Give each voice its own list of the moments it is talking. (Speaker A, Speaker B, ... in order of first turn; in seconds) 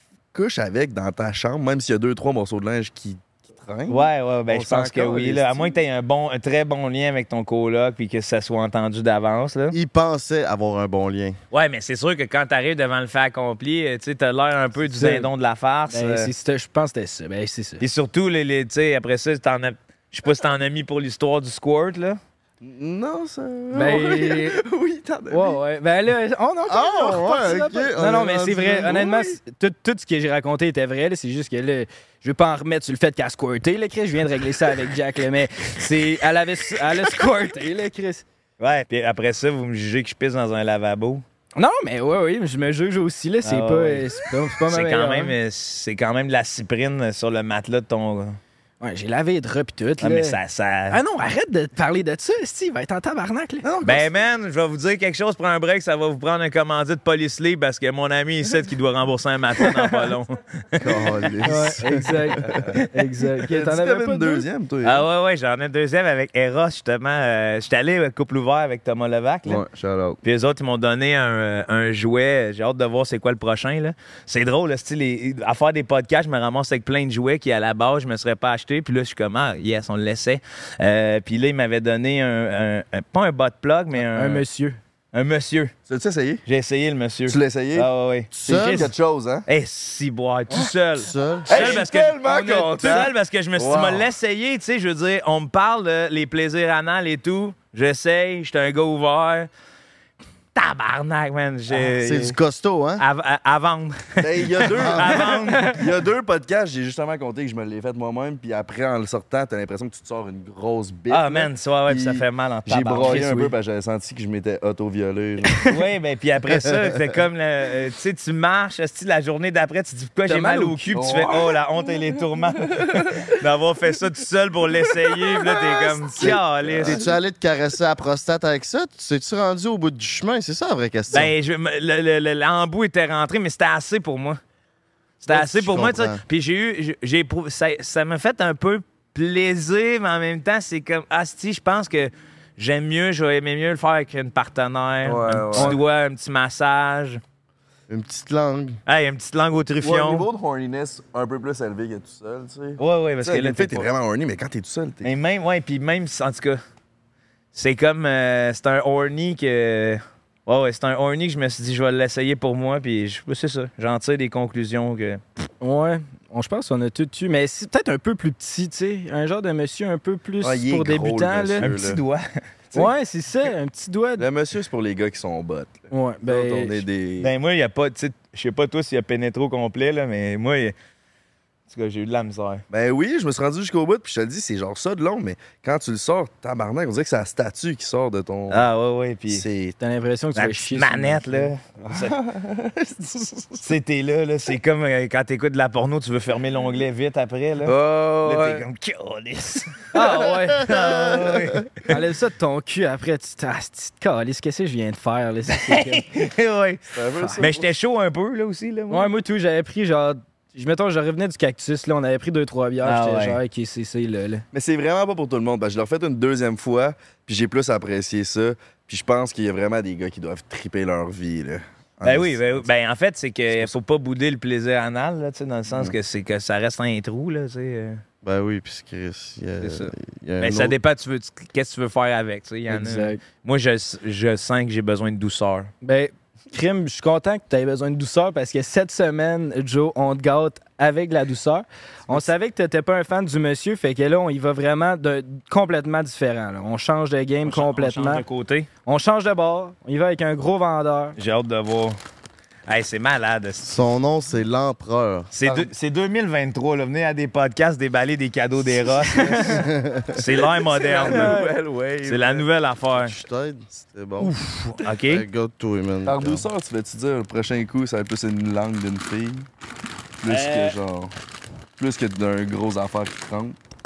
Speaker A: 0.3-5.8, 22.6-25.6, 28.6-29.4, 53.6-54.1, 60.8-61.8, 62.4-62.8, 63.5-65.0, 69.4-70.2, 85.9-86.4, 87.3-87.9, 88.4-89.5, 91.5-94.1, 104.2-115.8, 120.9-122.0, 122.6-123.3, 124.7-127.2, 145.0-145.8, 149.8-155.1, 170.4-172.0, 174.2-177.3, 182.7-188.6, 189.3-189.8, 191.8-193.7, 197.6-198.6, 206.9-207.7, 214.5-222.7, 255.4-255.7, 260.1-262.4, 266.1-269.5, 270.2-271.1, 271.8-273.6
Speaker B: 3.9-9.8, 11.5-16.3, 17.8-22.2, 38.6-41.2, 43.4-44.1, 44.6-48.4, 50.0-51.0, 53.8-60.9, 64.8-69.6, 70.2-84.4, 85.1-85.7, 86.5-88.3, 89.5-99.5, 100.5-102.4, 103.0-105.8, 111.1-113.4, 115.7-127.0, 131.1-134.4, 135.2-147.2, 148.8-150.3, 152.8-153.9, 155.0-156.6, 157.5-165.2, 171.6-172.2, 177.2-180.7, 181.7-182.6, 188.5-189.4, 190.3-192.2, 193.6-199.9, 200.6-201.7, 205.5-206.8, 207.4-209.1, 212.8-213.4, 222.0-228.0, 229.6-235.7, 247.4-248.7, 251.2-252.0, 252.7-253.7, 255.3-259.6, 260.1-261.4, 262.0-263.1, 264.2-265.2, 270.3-270.8
Speaker C: 9.7-11.4, 26.7-28.8, 60.8-62.3, 88.3-88.9, 91.0-91.8, 101.7-103.0, 104.7-105.2, 126.2-131.3, 135.3-136.2, 147.9-148.8, 200.7-201.6, 228.2-230.8, 253.6-255.3, 259.5-260.1, 263.0-264.3, 265.0-266.5
Speaker D: 14.8-15.3, 15.9-17.8, 23.7-24.6, 25.3-38.2, 41.5-45.3, 48.8-50.4, 50.9-53.7, 61.4-64.5, 84.0-84.8, 113.0-113.5, 120.3-120.9, 145.5-145.8, 165.6-171.7, 172.7-174.2, 175.9-176.8, 189.8-191.5, 199.9-200.9, 201.8-206.1, 207.2-207.4, 208.9-214.4, 232.7-233.2, 235.8-248.2, 248.8-251.2, 261.1-261.5